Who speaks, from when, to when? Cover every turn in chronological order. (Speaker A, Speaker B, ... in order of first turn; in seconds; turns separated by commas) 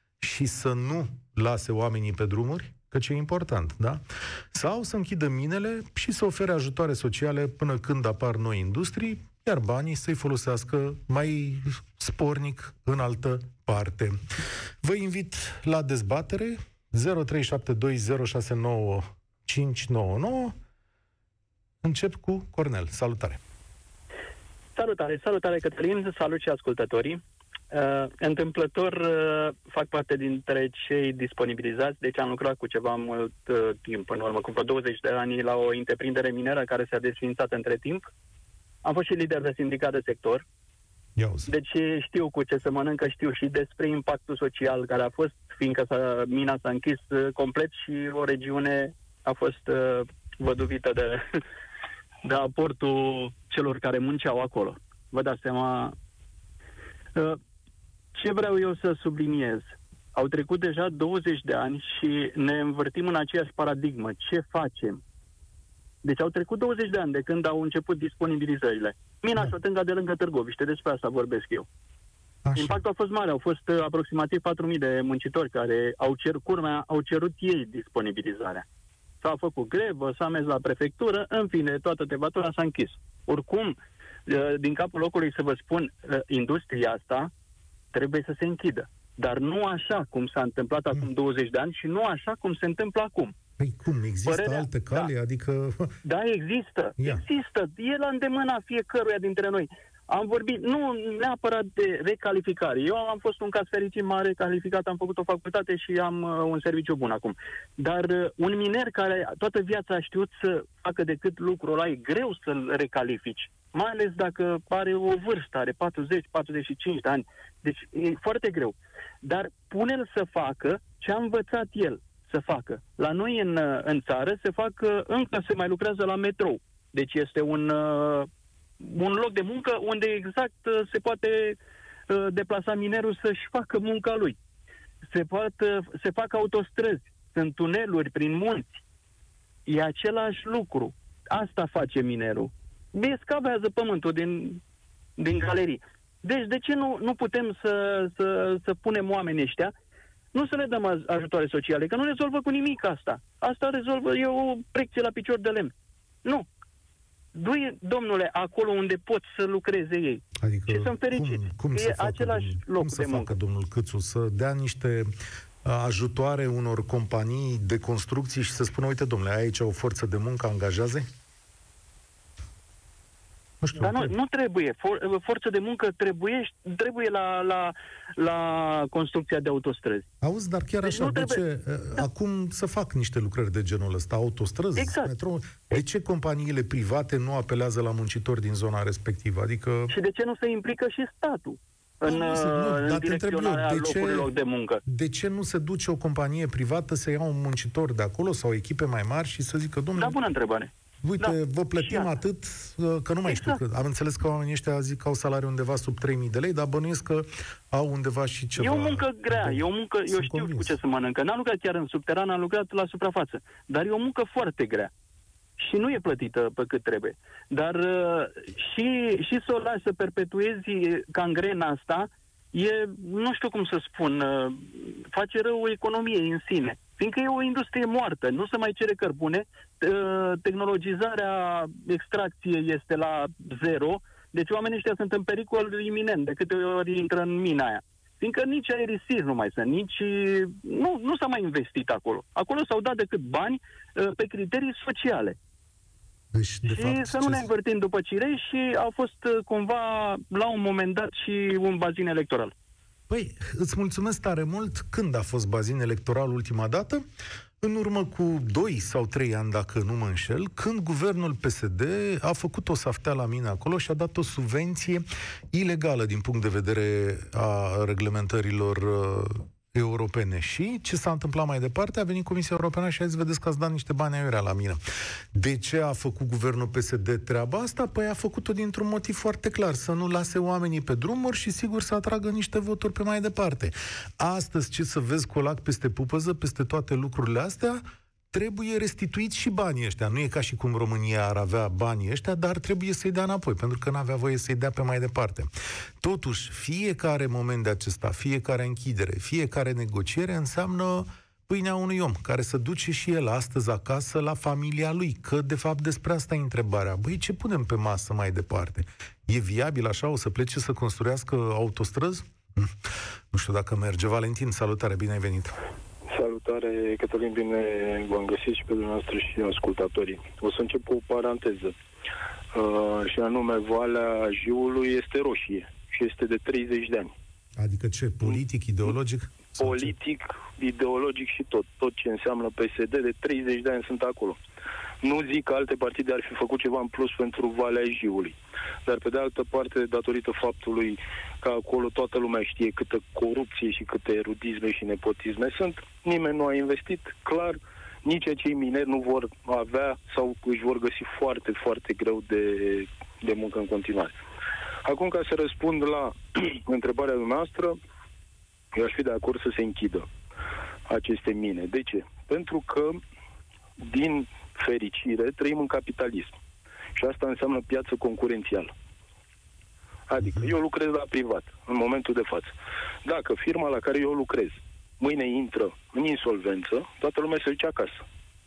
Speaker A: 0.2-14.2, Speaker A: 14.8-20.6, Speaker A: 21.8-23.4, Speaker B: 24.8-38.1, Speaker B: 38.8-40.4, Speaker A: 41.2-41.5, Speaker B: 41.5-51.4, Speaker B: 52.2-56.0, Speaker B: 58.1-65.0, Speaker B: 66.0-71.7, Speaker A: 72.4-72.8, Speaker B: 72.6-78.6, Speaker B: 79.2-87.3, Speaker B: 87.9-93.3, Speaker A: 93.6-96.0, Speaker B: 94.2-95.1, Speaker B: 96.0-128.3, Speaker B: 128.8-134.3, Speaker B: 135.1-138.8, Speaker B: 139.7-144.6, Speaker B: 145.2-149.7, Speaker B: 150.3-155.7, Speaker B: 157.3-163.3, Speaker A: 160.4-165.1, Speaker A: 165.6-171.1, Speaker A: 173.6-174.1, Speaker B: 173.8-180.1, Speaker A: 180.2-189.9, Speaker B: 180.8-181.4, Speaker B: 184.8-185.1, Speaker B: 189.9-194.8, Speaker A: 192.1-194.3, Speaker A: 194.8-200.2, Speaker B: 199.9-202.1, Speaker A: 201.0-210.8, Speaker B: 203.3-203.6, Speaker B: 208.6-214.9, Speaker B: 215.6-245.3, Speaker A: 246.3-247.5, Speaker B: 246.7-252.5, Speaker A: 253.1-257.0, Speaker A: 257.6-274.8, Speaker A: 275.3-295.5, Speaker A: 296.0-312.7, Speaker A: 313.3-315.5, Speaker C: 316.1-321.7, Speaker C: 322.5-327.1, Speaker A: 327.6-329.9, Speaker C: 329.6-334.4, Speaker C: 335.0-354.1, Speaker C: 354.8-357.8, Speaker C: 358.7-360.1, Speaker C: 360.9-363.0, Speaker C: 363.8-366.4, Speaker C: 366.9-368.7, Speaker C: 370.1-378.0, Speaker A: 370.2-370.5